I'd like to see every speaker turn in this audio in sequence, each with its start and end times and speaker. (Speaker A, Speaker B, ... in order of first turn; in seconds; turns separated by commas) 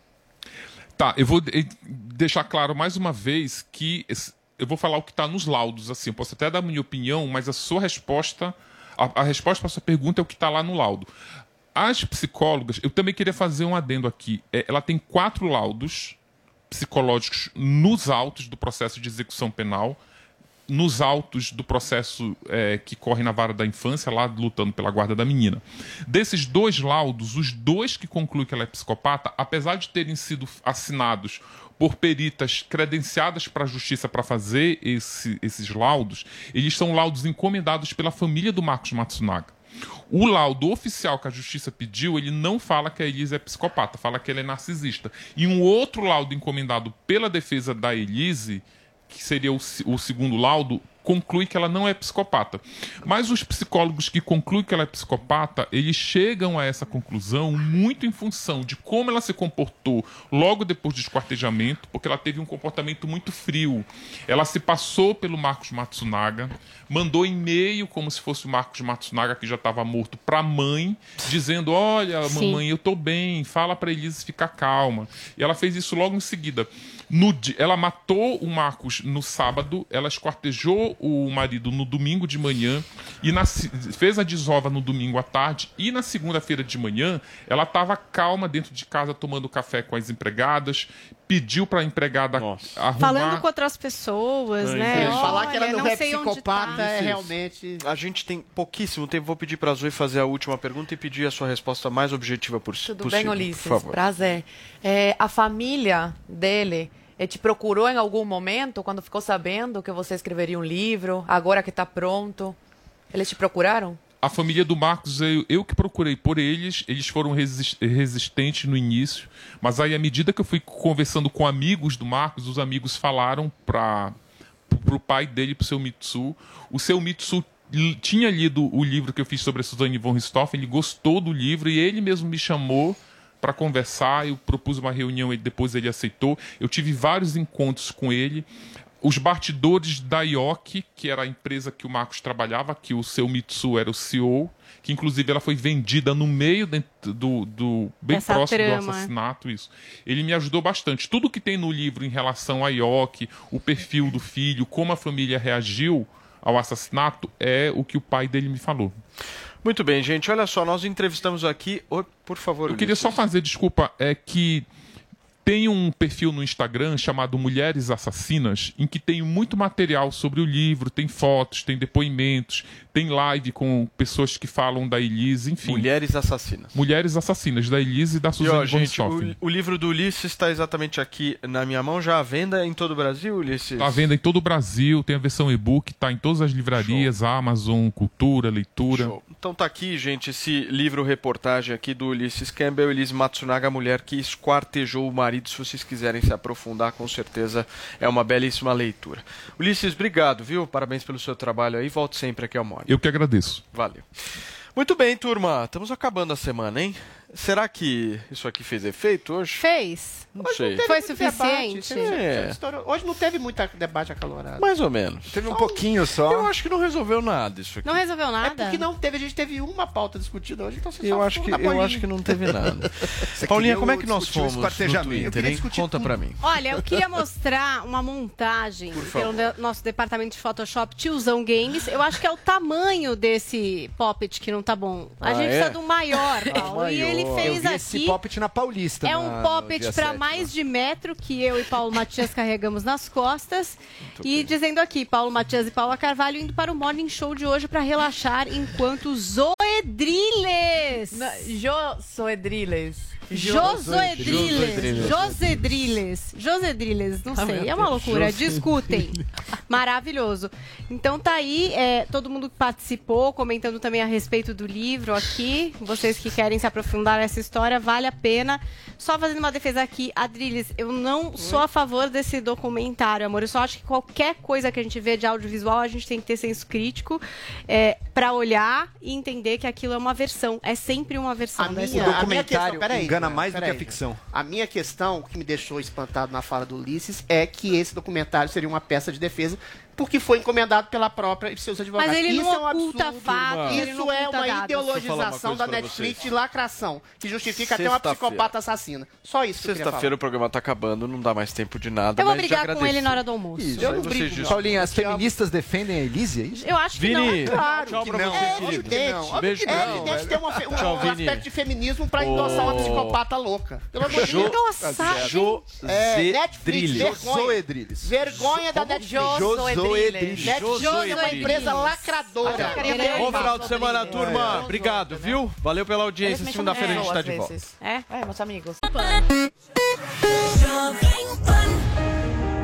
Speaker A: 1.0-11.1, Speaker A: 11.8-16.2, Speaker A: 16.7-20.0, Speaker A: 20.7-39.5, Speaker A: 40.1-93.5, Speaker B: 72.2-72.6, Speaker C: 92.3-92.8, Speaker B: 93.0-96.9, Speaker C: 94.6-95.5, Speaker D: 94.9-97.8, Speaker C: 96.7-104.0, Speaker E: 102.8-112.6, Speaker E: 113.1-114.0, Speaker A: 114.2-124.2, Speaker A: 124.7-138.5, Speaker A: 139.0-159.0, Speaker B: 148.1-149.1, Speaker C: 159.6-163.2, Speaker A: 162.7-164.7, Speaker A: 165.4-175.9, Speaker C: 175.6-176.8, Speaker A: 176.7-179.3, Speaker C: 178.4-184.1, Speaker A: 183.8-189.2, Speaker C: 186.7-187.1, Speaker C: 188.9-203.0, Speaker A: 202.9-203.6, Speaker C: 203.7-204.1, Speaker C: 204.8-209.6, Speaker B: 209.6-210.3, Speaker C: 210.3-210.8, Speaker D: 210.4-214.7, Speaker B: 210.8-212.2, Speaker C: 211.8-212.6, Speaker C: 214.6-215.4, Speaker F: 215.3-216.5, Speaker D: 215.5-215.8, Speaker C: 216.2-218.0, Speaker B: 217.8-218.8, Speaker D: 218.4-222.1, Speaker C: 221.0-226.4, Speaker F: 223.4-226.2, Speaker B: 226.4-238.2, Speaker C: 228.9-229.4, Speaker C: 235.2-237.6, Speaker F: 237.4-240.5, Speaker B: 239.0-251.5, Speaker C: 244.2-244.5, Speaker E: 251.1-255.1, Speaker C: 253.3-255.8, Speaker B: 253.3-259.2, Speaker E: 257.4-258.0, Speaker C: 257.9-259.1, Speaker B: 259.7-282.3, Speaker D: 281.6-300.1, Speaker F: 281.9-284.2, Speaker B: 292.0-295.0, Speaker C: 293.4-293.9, Speaker C: 294.9-296.3, Speaker C: 297.5-298.6, Speaker C: 299.6-305.2, Speaker B: 302.2-304.3, Speaker F: 303.8-306.7, Speaker D: 303.8-305.3, Speaker B: 306.5-308.6, Speaker C: 306.9-311.5, Speaker D: 307.4-319.5, Speaker F: 308.0-311.1, Speaker C: 312.2-313.2, Speaker B: 312.5-312.9, Speaker C: 314.1-317.2, Speaker B: 314.2-315.4, Speaker F: 314.2-315.6, Speaker F: 316.9-320.7, Speaker E: 319.0-320.8, Speaker C: 320.4-321.7, Speaker D: 320.5-323.2, Speaker B: 320.6-323.6, Speaker C: 322.4-327.6, Speaker E: 322.5-325.4, Speaker E: 326.2-328.8